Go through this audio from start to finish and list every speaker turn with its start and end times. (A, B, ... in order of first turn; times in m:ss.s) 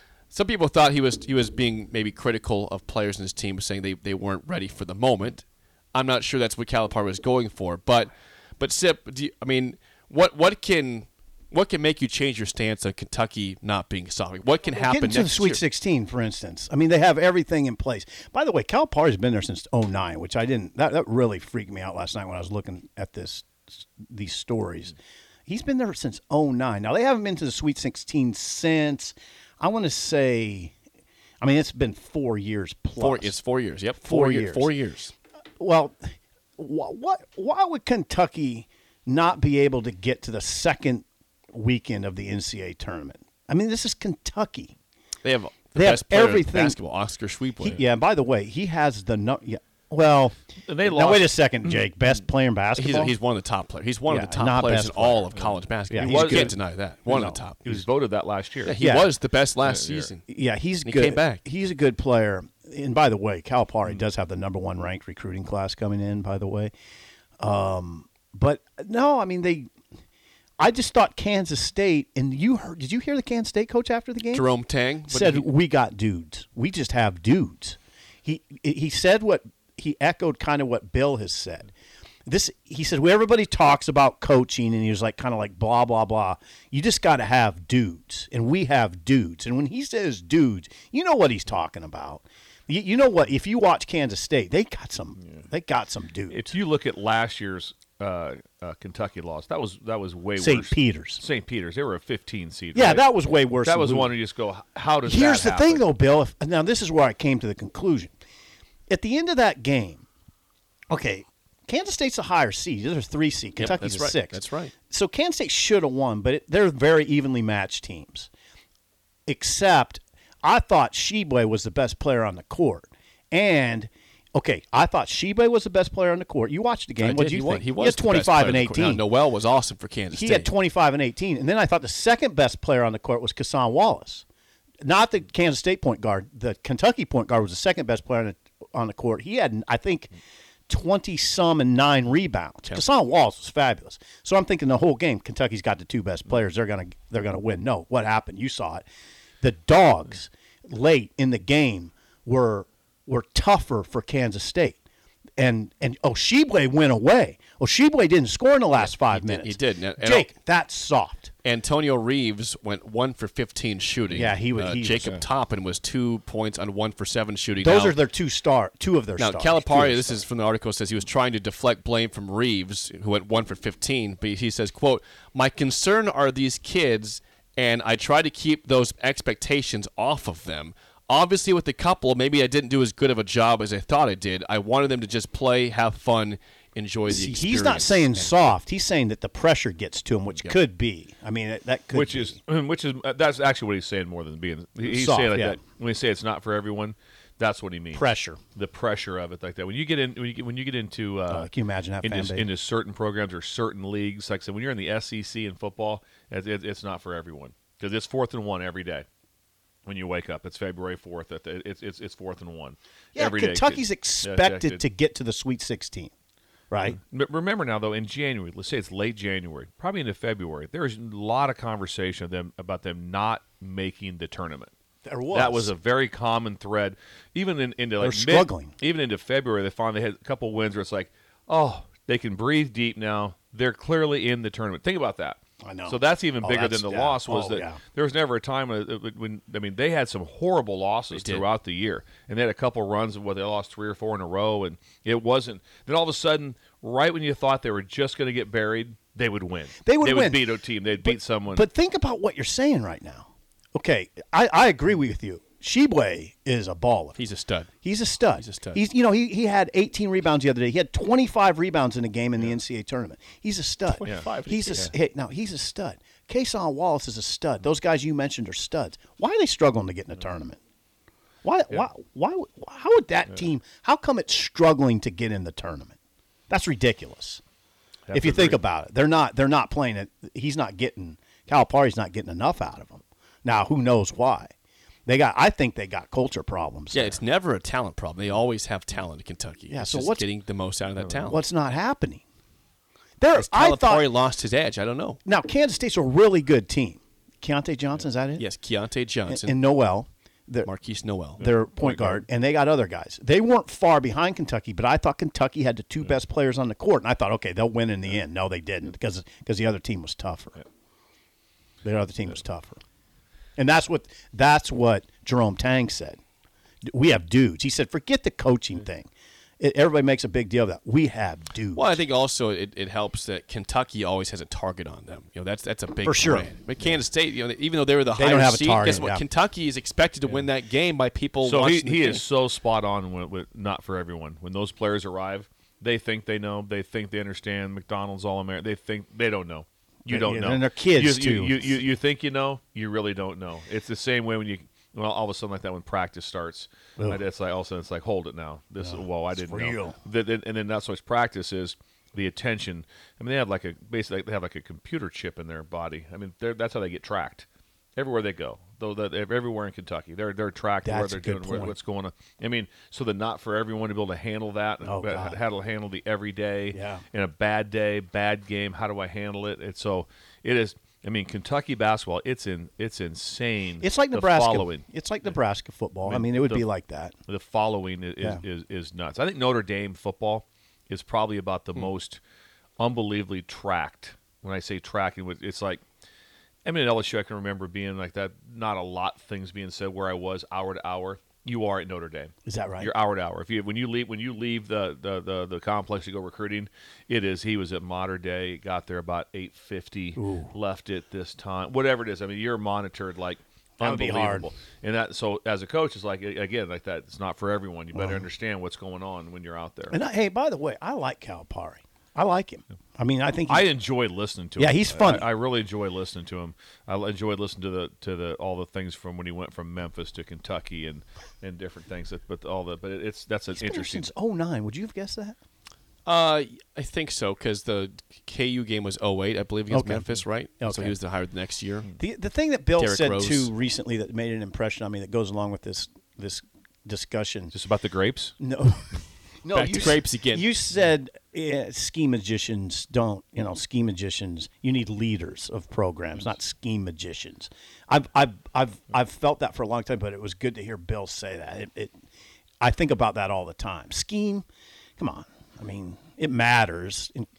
0:00.3-0:15.6 A
0:14.7-0:24.9 B
0:25.5-0:30.7 B
0:31.4-0:33.4 B
0:33.0-0:35.1 A
0:34.0-0:34.7 B
0:35.6-0:44.7 B
0:45.2-0:47.8 A
0:45.7-0:46.8 B
0:47.6-0:53.2 B
0:50.7-0:51.9 C
0:52.8-0:57.8 A
0:54.1-0:55.3 B
0:55.4-0:56.6 C
0:55.9-0:56.6 B
0:57.1-0:57.4 B
0:57.1-0:58.8 C
0:58.6-1:00.2 A
0:58.8-0:59.1 B
0:59.6-1:00.1 C
1:00.3-1:06.7 B
1:00.8-1:01.4 A
1:07.4-1:09.7 B
1:10.6-1:14.5 B
1:14.3-1:15.5 A
1:15.1-1:21.7 B
1:22.2-1:36.5 B
1:36.3-1:43.0 C
1:40.4-1:41.2 B
1:42.7-1:44.1 B
1:43.6-1:45.8 C
1:45.0-1:48.1 B
1:48.9-1:50.0 B
1:50.9-1:58.3 B
1:53.6-1:54.7 A
1:59.3-2:09.0 B
2:07.0-2:10.5 A
2:10.1-2:14.2 B
2:14.8-2:20.1 B
2:20.7-2:28.8 B
2:29.4-2:34.8 B
2:35.4-2:41.3 B
2:38.8-2:40.3 A
2:41.4-2:48.0 A
2:44.1-2:45.2 B
2:47.6-2:50.2 B
2:49.2-3:08.3 A
3:07.1-3:12.4 B
3:11.9-3:21.5 C
3:14.8-3:15.6 B
3:17.9-3:18.4 B
3:21.3-3:22.5 B
3:22.0-3:29.0 C
3:29.8-3:34.8 C
3:33.2-3:36.1 B
3:36.7-3:37.0 B
3:37.0-3:44.7 C
3:45.0-3:45.7 B
3:45.3-4:11.6 C
3:48.0-3:48.7 B
3:55.6-3:57.8 B
4:01.1-4:01.4 A
4:09.8-4:17.2 B
4:17.2-4:17.7 A
4:17.8-4:30.6 B
4:18.4-4:18.8 A
4:23.9-4:24.9 A
4:31.4-4:36.0 B
4:36.5-4:37.4 B
4:38.1-4:38.6 C
4:38.1-4:44.5 B
4:45.0-4:47.2 B
4:46.9-4:51.4 A
4:49.7-4:50.2 B
4:51.3-4:52.2 B
4:53.2-4:54.1 B
4:53.3-4:55.2 A
4:55.2-4:58.4 B
4:58.4-4:59.6 A
4:59.3-5:00.7 B
5:00.6-5:01.4 A
5:01.4-5:10.6 B
5:01.4-5:02.2 C
5:11.8-5:12.8 B
5:13.6-5:16.2 B
5:16.8-5:22.0 B
5:21.7-5:32.2 A
5:26.0-5:26.5 B
5:28.1-5:29.2 B
5:31.4-6:14.8 C
5:40.1-5:41.7 B
5:48.8-5:50.0 B
6:00.8-6:01.7 B
6:04.8-6:05.4 B
6:06.7-6:07.0 B
6:13.8-6:17.2 B
6:16.0-6:16.6 C
6:17.3-6:22.2 C
6:22.8-6:25.8 C
6:26.6-6:50.0 C
6:32.4-6:32.9 B
6:40.2-6:40.5 B
6:43.8-6:44.5 B
6:47.9-6:48.2 B
6:49.9-6:53.7 B
6:53.5-7:04.1 C
6:54.6-6:55.3 B
7:03.5-7:05.4 B
7:06.0-7:11.9 A
7:09.7-7:11.0 B
7:12.0-7:17.5 B
7:12.8-7:13.5 A
7:17.5-7:18.3 C
7:18.4-7:32.0 B
7:19.5-7:20.5 A
7:32.6-7:34.4 B
7:35.0-7:37.3 B